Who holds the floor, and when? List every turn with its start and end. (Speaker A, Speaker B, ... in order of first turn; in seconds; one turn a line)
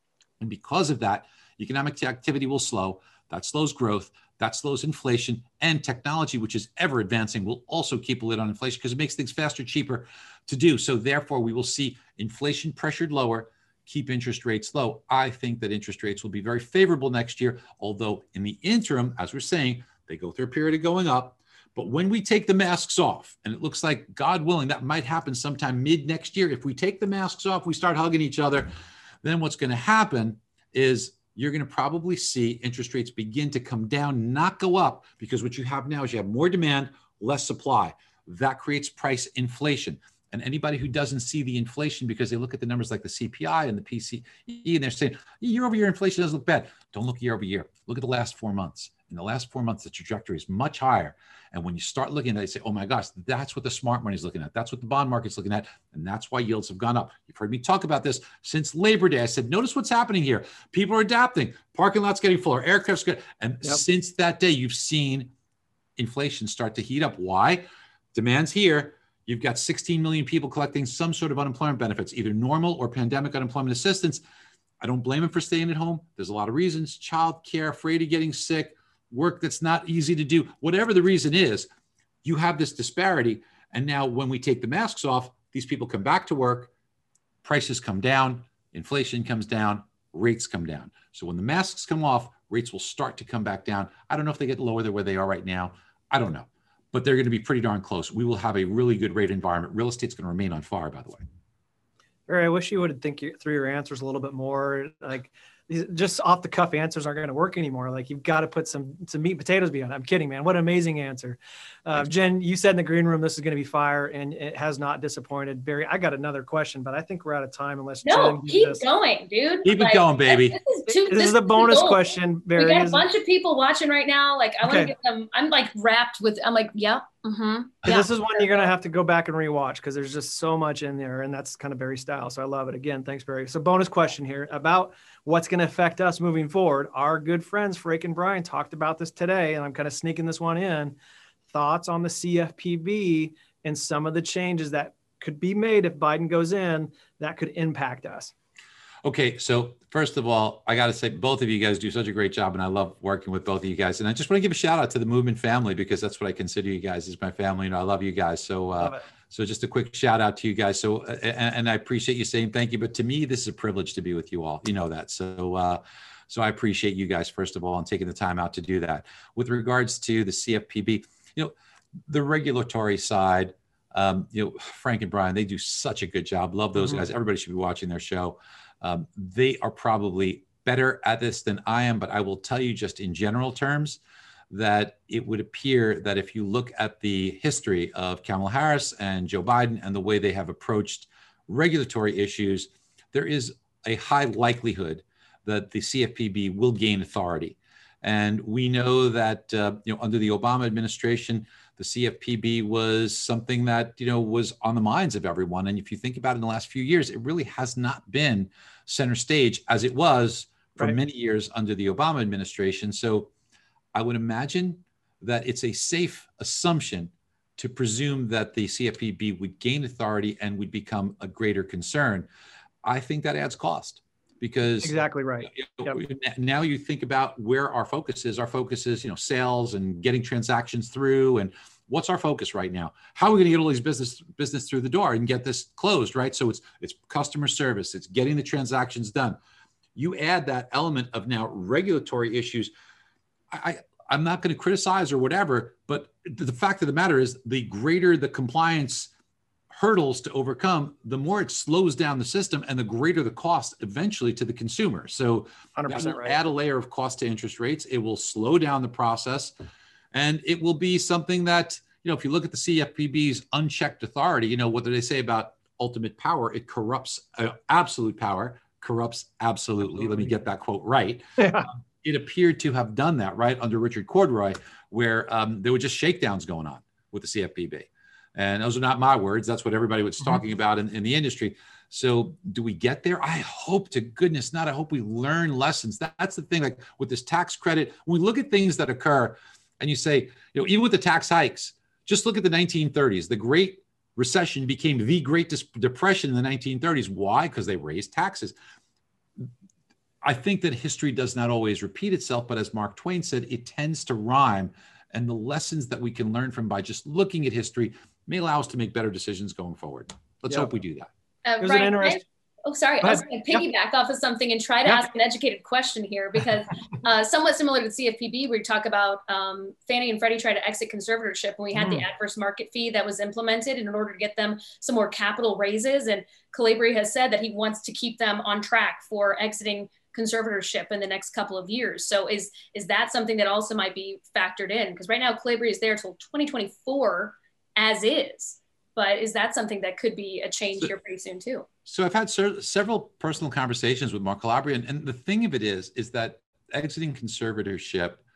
Speaker A: 0.4-28.7
Speaker A: 29.2-65.3
Speaker A: 66.0-74.2
Speaker A: 74.8-81.7
Speaker A: 82.2-86.7
Speaker A: 87.4-101.2
Speaker B: 102.3-118.8
Speaker C: 118.0-128.7
Speaker A: 119.6-120.6
Speaker B: 120.9-123.0
Speaker B: 124.6-124.9
Speaker B: 127.8-141.0
Speaker B: 141.5-148.3
Speaker A: 149.0-171.5
Speaker A: 172.1-184.0
Speaker A: 184.5-213.3
Speaker A: 213.9-222.3
Speaker A: 222.8-239.4
Speaker B: 224.8-226.0
Speaker A: 239.9-242.7
Speaker A: 243.5-249.1
Speaker A: 249.7-259.5
Speaker B: 255.8-256.4
Speaker A: 260.1-298.5
Speaker B: 271.4-271.7
Speaker A: 300.2-311.1
Speaker C: 311.4-341.6
Speaker B: 311.6-312.2
Speaker B: 313.0-313.6
Speaker B: 321.8-322.0
Speaker A: 341.9-348.2